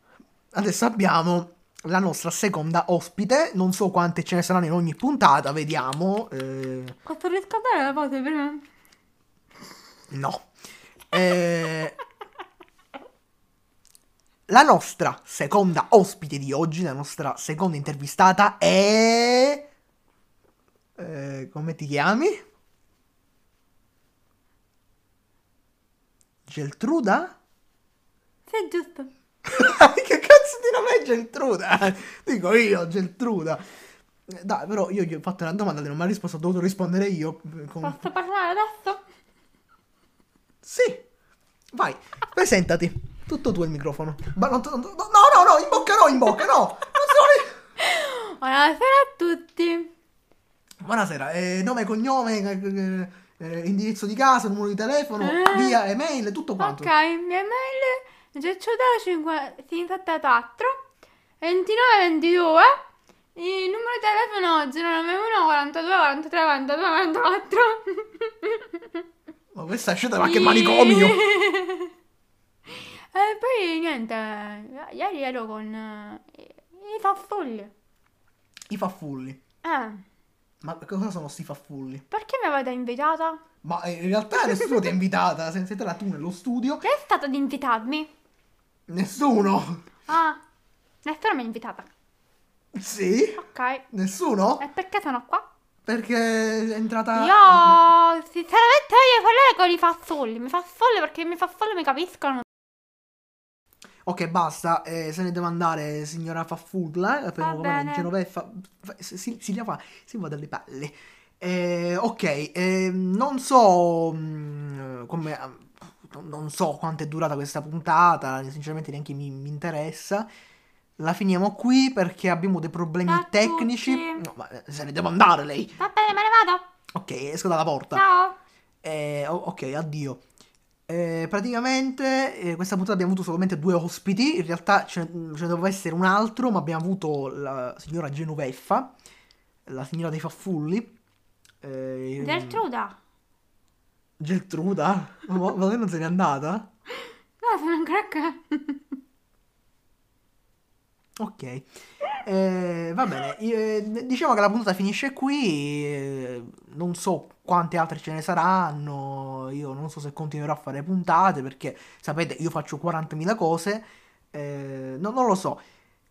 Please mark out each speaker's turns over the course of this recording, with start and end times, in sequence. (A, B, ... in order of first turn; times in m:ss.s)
0:00.5-0:07.0 A
0:07.0-0:08.6 B
0:10.1-0:10.5 A
0:11.1-0:12.0 A
0:14.5-0:19.6 A
0:21.0-0:22.4 A
0:26.5-0:27.4 A
0:28.5-0:29.1 B
0:29.5-0:33.6 A
0:34.3-0:38.0 A
0:37.8-0:39.0 B
0:40.6-0:41.0 A
0:41.7-0:47.6 A
0:47.8-0:49.9 B
0:50.8-0:56.9 A
0:55.2-0:55.8 B
0:56.6-1:00.8 B
1:01.4-1:02.8 B
1:03.4-1:09.0 B
1:09.5-1:11.2 A
1:10.2-1:11.9 B
1:12.7-1:17.7 B
1:18.7-1:19.4 A
1:19.6-1:20.0 B
1:20.6-1:22.0 A
1:22.1-1:23.4 B
1:23.6-1:26.8 A
1:26.8-1:28.1 B
1:28.9-1:29.9 A
1:30.1-1:30.4 B
1:31.0-1:31.9 B
1:32.7-1:34.6 A
1:33.4-1:33.8 B
1:34.6-1:35.5 B
1:35.9-1:37.8 A
1:37.1-1:42.5 B
1:44.0-2:00.3 A
1:47.4-1:48.1 B
2:01.0-2:05.8 A
2:03.1-2:04.2 B
2:05.8-2:06.7 B
2:07.0-2:08.0 A
2:07.9-2:08.4 B
2:08.8-2:10.2 A
2:10.9-2:18.9 A
2:19.7-2:20.9 A
2:21.6-2:22.6 A
2:22.2-2:23.0 B
2:24.2-2:26.7 A
2:27.4-2:29.0 B
2:31.2-2:31.7 A
2:32.2-2:45.6 A